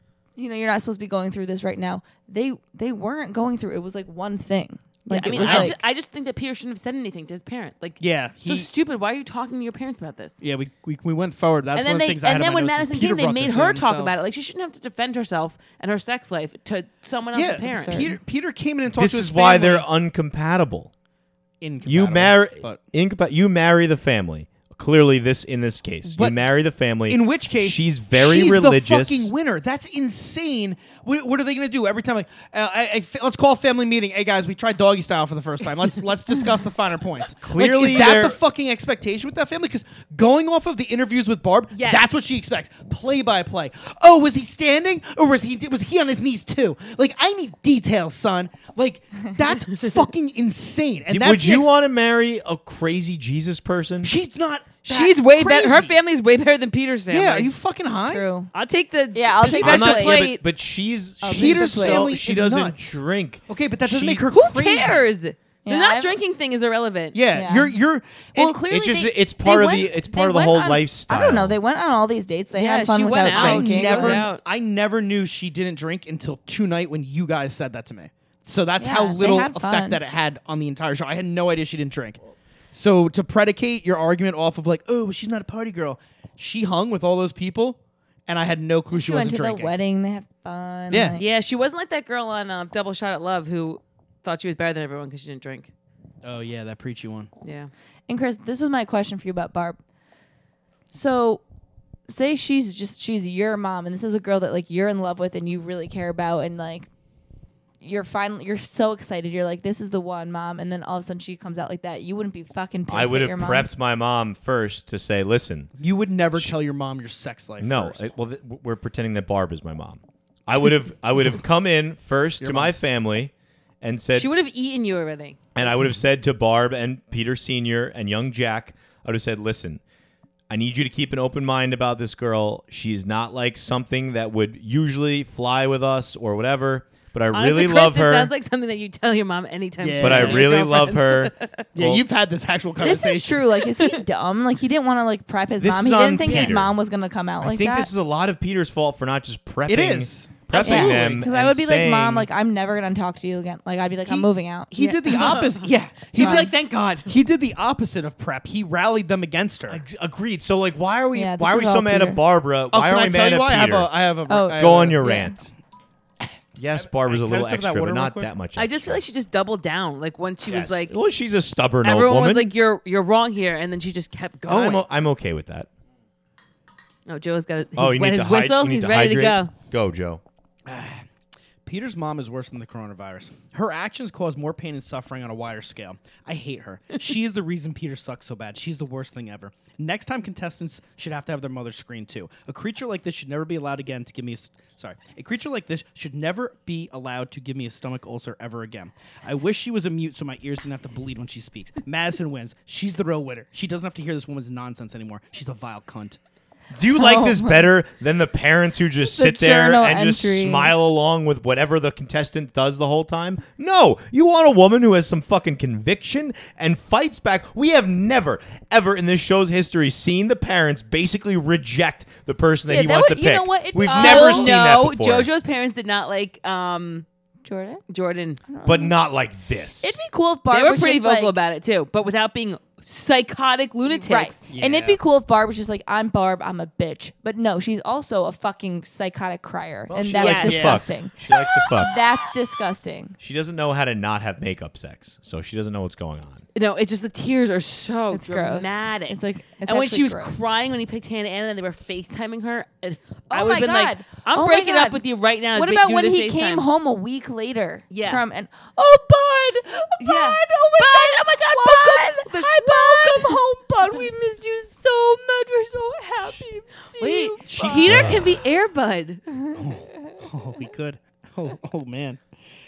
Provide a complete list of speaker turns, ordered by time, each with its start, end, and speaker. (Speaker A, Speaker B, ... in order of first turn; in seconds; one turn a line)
Speaker A: 0.4-5.8
Speaker B: 5.1-10.4
Speaker C: 5.3-5.8
Speaker C: 8.0-8.7
Speaker C: 10.4-14.2
Speaker B: 11.8-18.1
Speaker C: 17.3-19.9
Speaker A: 17.6-18.1
Speaker D: 18.9-20.9
Speaker C: 21.6-22.8
Speaker D: 21.9-29.3
Speaker C: 26.1-26.5
Speaker C: 27.1-51.7
Speaker D: 37.4-38.4
Speaker B: 41.7-42.1
Speaker D: 51.1-54.1
Speaker C: 54.0-56.0
Speaker B: 54.9-57.5
Speaker C: 57.1-58.3
Speaker A: 58.1-58.5
Speaker B: 58.5-60.4
Speaker A: 59.1-60.2
Speaker C: 59.4-60.1
Speaker D: 59.5-64.2
Speaker A: 61.2-62.1
Speaker C: 61.3-62.9
Speaker C: 63.5-65.0
Speaker B: 64.3-67.2
Speaker A: 65.7-66.2
Speaker C: 67.1-68.6
Speaker A: 67.3-67.8
Speaker A: 68.4-74.3
Speaker D: 68.7-71.6
Speaker B: 72.5-74.4
Speaker C: 73.2-82.2
Speaker A: 78.8-80.0
Speaker C: 82.7-89.8
Speaker A: 88.9-91.2
Speaker C: 90.9-91.2
Speaker B: 91.2-95.7
Speaker C: 96.2-97.3
Speaker B: 97.4-97.7
Speaker A: 98.1-99.8
Speaker A: 100.9-101.4
Speaker A: 102.1-106.9
Speaker A: 107.8-113.7
Speaker D: 112.9-115.7
Speaker C: 115.8-118.1
Speaker D: 117.6-124.3
Speaker C: 122.4-122.8
Speaker B: 124.1-125.5
Speaker D: 125.5-129.8
Speaker D: 130.5-138.3
Speaker B: 137.3-141.7
Speaker C: 139.8-140.5
Speaker D: 140.0-142.1
Speaker C: 141.8-143.6
Speaker A: 142.8-147.9
Speaker B: 143.7-144.0
Speaker D: 145.6-146.7
Speaker C: 146.2-146.6
Speaker D: 147.4-152.3
Speaker C: 149.7-151.2
Speaker A: 150.6-155.4
Speaker C: 154.1-156.5
Speaker B: 154.8-157.1
Speaker A: 156.2-156.5
Speaker C: 157.1-159.8
Speaker D: 159.7-163.9
Speaker A: 161.1-162.2
Speaker C: 162.7-165.5
Speaker A: 164.3-165.4
Speaker D: 164.6-165.5
Speaker D: 166.6-169.0
Speaker C: 166.7-168.3
Speaker B: 168.6-171.0
Speaker D: 170.4-172.5
Speaker B: 171.8-174.8
Speaker D: 174.5-175.7
Speaker B: 177.1-179.5
Speaker D: 177.8-180.2
Speaker C: 180.7-181.1
Speaker C: 181.7-206.2
Speaker D: 206.7-225.3
Speaker A: 206.9-207.7
Speaker A: 209.0-210.7
Speaker A: 222.7-224.5
Speaker B: 223.9-227.1
Speaker A: 227.4-227.8
Speaker B: 227.9-228.4
Speaker A: 228.5-228.9
Speaker D: 228.6-230.0
Speaker A: 229.8-231.3
Speaker B: 230.5-234.4
Speaker A: 233.9-241.2
Speaker C: 234.5-235.0
Speaker D: 239.9-241.9
Speaker B: 240.2-240.8
Speaker C: 240.4-240.8
Speaker A: 241.7-243.2
Speaker D: 243.2-246.4
Speaker B: 246.6-256.7
Speaker A: 248.1-250.4
Speaker A: 253.3-255.0
Speaker A: 255.6-268.0
Speaker B: 257.9-258.2
Speaker B: 260.0-264.1
Speaker B: 267.0-269.2
Speaker C: 267.4-268.2
Speaker C: 269.5-272.2